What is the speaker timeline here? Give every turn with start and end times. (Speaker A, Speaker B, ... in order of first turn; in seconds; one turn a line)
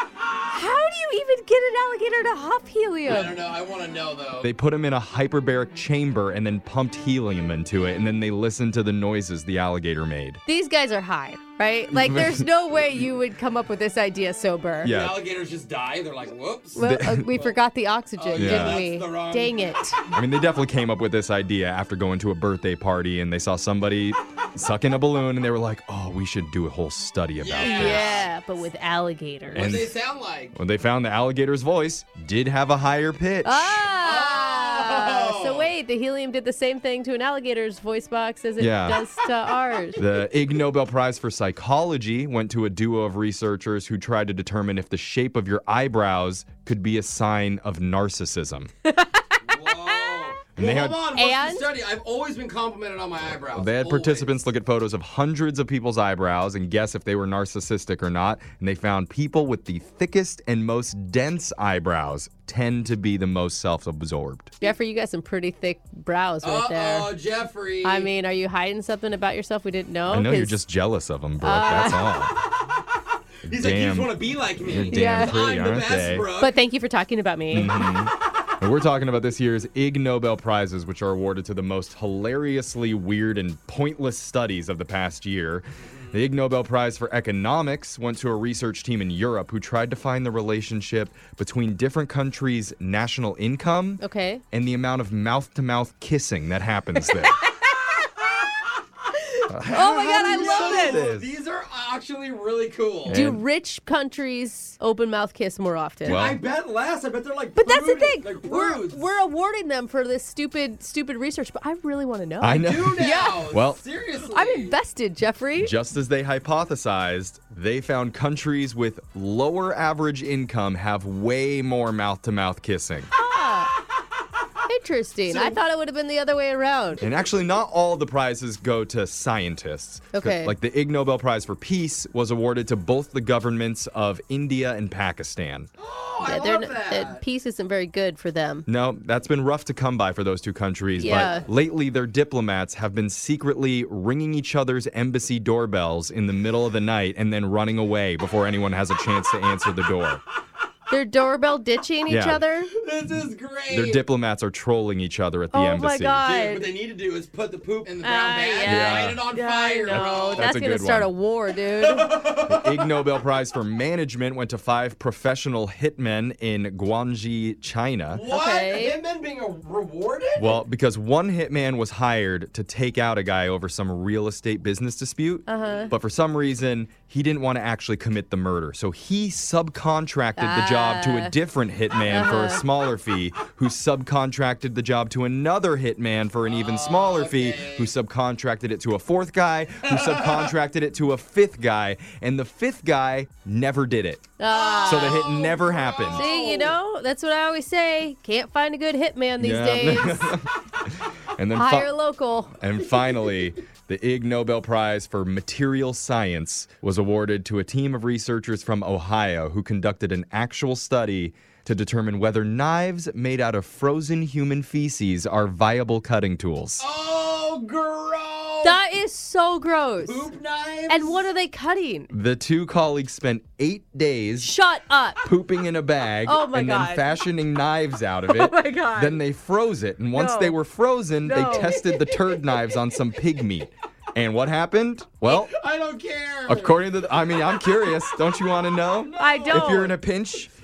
Speaker A: 0.5-3.4
Speaker B: 3.0-4.5
Speaker C: 4.4-10.4
Speaker A: 10.4-14.9
Speaker C: 11.9-12.4
Speaker C: 14.8-15.2
Speaker B: 14.8-17.6
Speaker A: 16.7-20.0
Speaker C: 16.8-17.3
Speaker B: 18.2-19.8
Speaker C: 18.4-18.8
Speaker C: 20.1-28.2
Speaker B: 27.4-28.3
Speaker A: 27.6-29.8
Speaker B: 29.5-30.6
Speaker C: 29.6-30.0
Speaker C: 30.5-33.9
Speaker A: 33.4-40.0
Speaker B: 34.0-35.7
Speaker C: 38.6-39.0
Speaker C: 40.0-48.7
Speaker A: 48.9-50.3
Speaker B: 49.4-54.4
Speaker C: 50.5-51.0
Speaker A: 51.1-51.7
Speaker C: 53.2-64.5
Speaker A: 64.6-67.1
Speaker B: 66.4-68.1
Speaker A: 67.8-70.6
Speaker C: 70.1-72.3
Speaker A: 71.4-72.1
Speaker B: 73.4-76.5
Speaker C: 73.5-76.3
Speaker A: 74.9-75.4
Speaker A: 76.3-77.9
Speaker C: 77.5-97.4
Speaker A: 94.0-94.4
Speaker C: 99.5-101.3
Speaker A: 99.6-101.1
Speaker B: 99.7-103.2
Speaker C: 103.1-103.4
Speaker A: 103.1-106.2
Speaker C: 106.0-106.4
Speaker B: 106.1-109.0
Speaker A: 107.5-113.5
Speaker C: 112.4-113.8
Speaker B: 112.5-114.8
Speaker A: 114.2-115.7
Speaker C: 115.6-123.1
Speaker A: 123.1-123.7
Speaker A: 124.7-127.0
Speaker B: 125.3-125.6
Speaker C: 127.0-135.7
Speaker A: 130.1-130.6
Speaker B: 135.8-137.2
Speaker A: 136.2-138.7
Speaker C: 138.7-150.2
Speaker A: 141.0-141.5
Speaker A: 150.9-152.7
Speaker C: 152.1-152.4
Speaker B: 152.7-154.0
Speaker C: 153.0-156.2
Speaker A: 155.5-156.7
Speaker B: 156.2-160.5
Speaker A: 158.0-162.1
Speaker C: 158.6-159.2
Speaker C: 159.9-161.1
Speaker B: 161.8-162.8
Speaker C: 162.4-168.2
Speaker B: 168.1-170.6
Speaker A: 168.3-169.0
Speaker C: 170.4-194.3
Speaker A: 175.5-175.9
Speaker B: 175.6-175.9
Speaker A: 180.3-181.3
Speaker A: 182.1-182.6
Speaker B: 186.4-187.9
Speaker B: 189.8-190.5
Speaker A: 194.4-195.5
Speaker B: 194.5-196.8
Speaker C: 194.8-196.3
Speaker A: 196.1-200.4
Speaker C: 199.4-201.9
Speaker A: 201.5-202.6
Speaker C: 202.6-216.8
Speaker B: 216.8-218.8
Speaker A: 218.6-220.3
Speaker B: 220.0-221.3
Speaker A: 220.9-222.1
Speaker C: 222.1-224.5
Speaker A: 224.4-225.3
Speaker C: 225.2-235.5
Speaker A: 226.2-227.1
Speaker A: 228.3-229.2
Speaker A: 230.1-230.6
Speaker A: 231.2-232.2
Speaker B: 235.3-237.9
Speaker C: 236.5-240.5
Speaker B: 239.0-239.8
Speaker A: 239.2-240.0